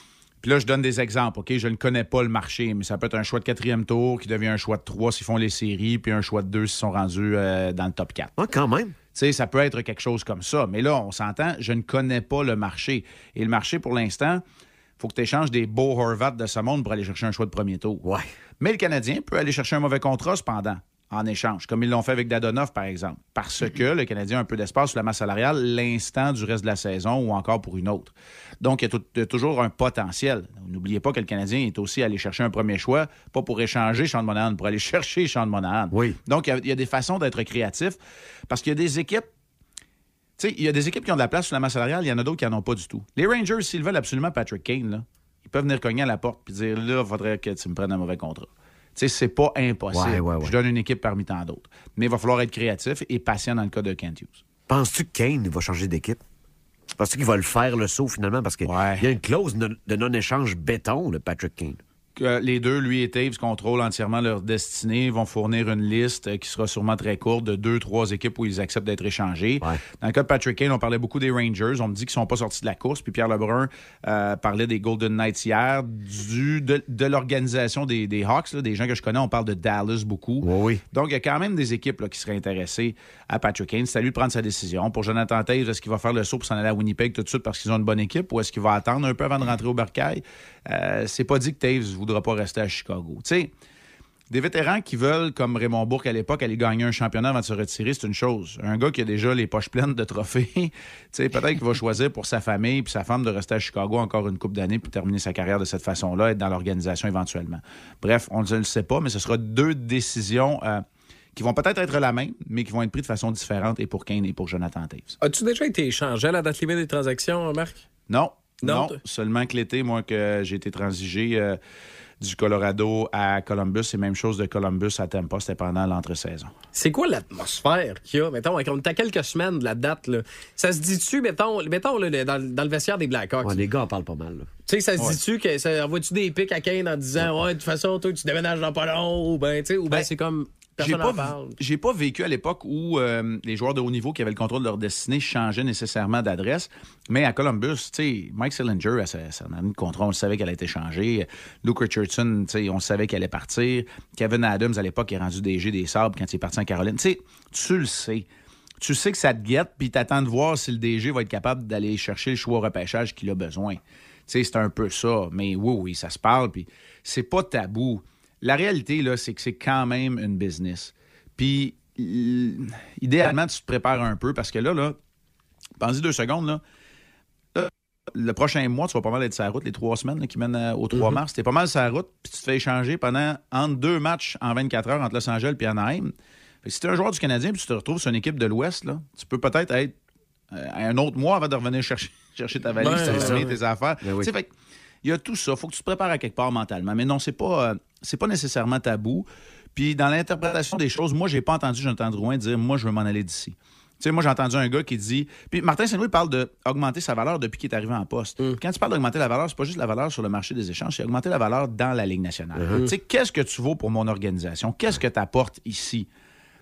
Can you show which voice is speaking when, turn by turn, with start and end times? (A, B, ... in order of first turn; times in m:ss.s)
0:00.4-0:08.3 A
0:08.4-0:09.0 B
0:09.1-0:14.4 A
0:15.0-0:18.0 A
0:18.6-0:39.3 A
0:35.9-0:36.2 B
0:40.4-0:54.4 A
0:49.9-0:50.5 B
0:54.7-0:56.2 B
0:57.0-1:01.8 B
0:58.6-0:59.1 A
1:02.2-1:33.5 A
1:20.4-1:20.8 B
1:34.3-1:55.1 A
1:55.2-1:57.8 C
1:58.1-2:01.6 A
1:58.6-1:59.0 C
2:02.2-2:06.6 A
2:06.7-2:13.6 C
2:13.4-2:14.5 B
2:14.7-2:21.6 C
2:20.8-2:38.3 A
2:38.8-2:55.0 A
2:55.8-2:56.6 A
2:57.5-3:06.1 A
3:06.6-3:09.9 A
3:10.5-3:14.5 A
3:12.8-3:13.6 C
3:13.0-3:13.4 B
3:14.0-3:14.3 B
3:15.0-3:36.1 A